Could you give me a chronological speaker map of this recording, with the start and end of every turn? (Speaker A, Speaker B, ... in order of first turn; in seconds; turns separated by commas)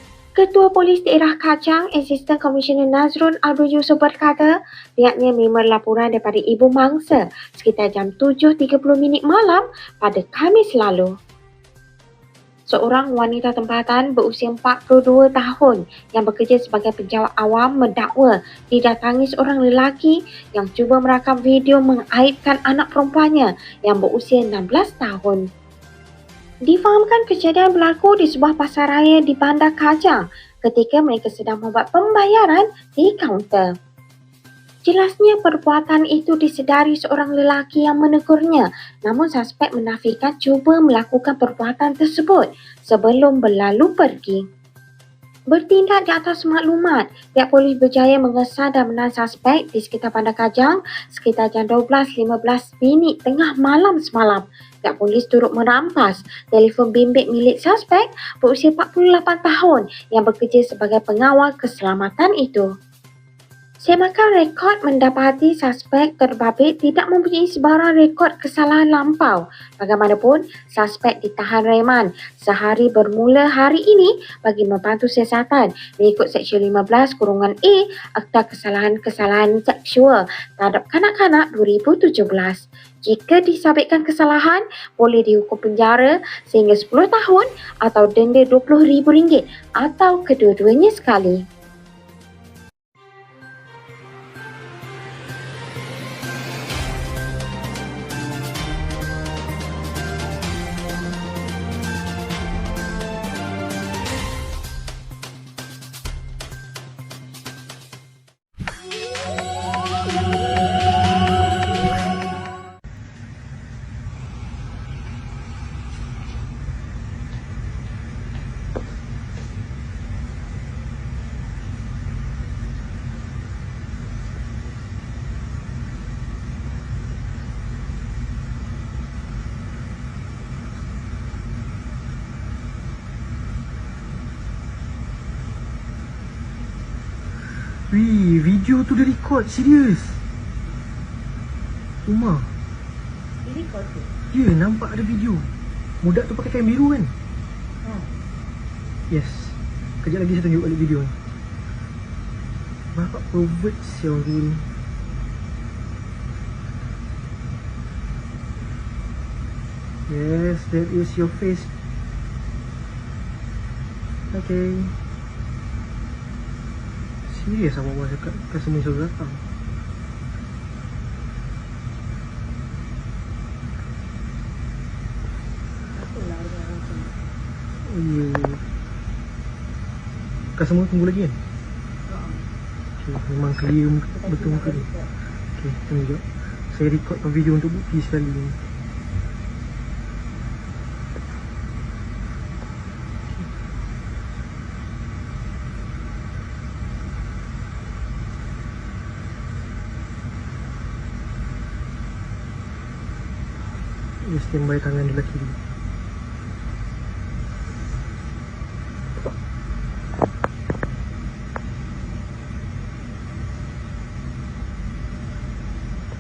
Speaker A: 0.4-11.1, Speaker A: 12.7-25.4, Speaker A: 26.7-33.7, Speaker A: 34.9-44.4, Speaker A: 45.5-62.7, Speaker A: 63.9-91.4, Speaker B: 137.6-140.2, Speaker B: 142.1-142.5, Speaker C: 143.4-144.1, Speaker B: 144.3-147.1, Speaker C: 147.8-148.1, Speaker B: 149.1-151.2, Speaker B: 152.9-154.7, Speaker B: 160.1-161.7, Speaker B: 164.3-165.0, Speaker B: 167.3-169.4, Speaker C: 175.9-177.2, Speaker B: 177.8-178.6, Speaker B: 180.6-181.4, Speaker C: 182.1-182.4, Speaker B: 183.0-184.9, Speaker C: 184.1-185.1, Speaker B: 185.5-188.6, Speaker B: 204.2-205.6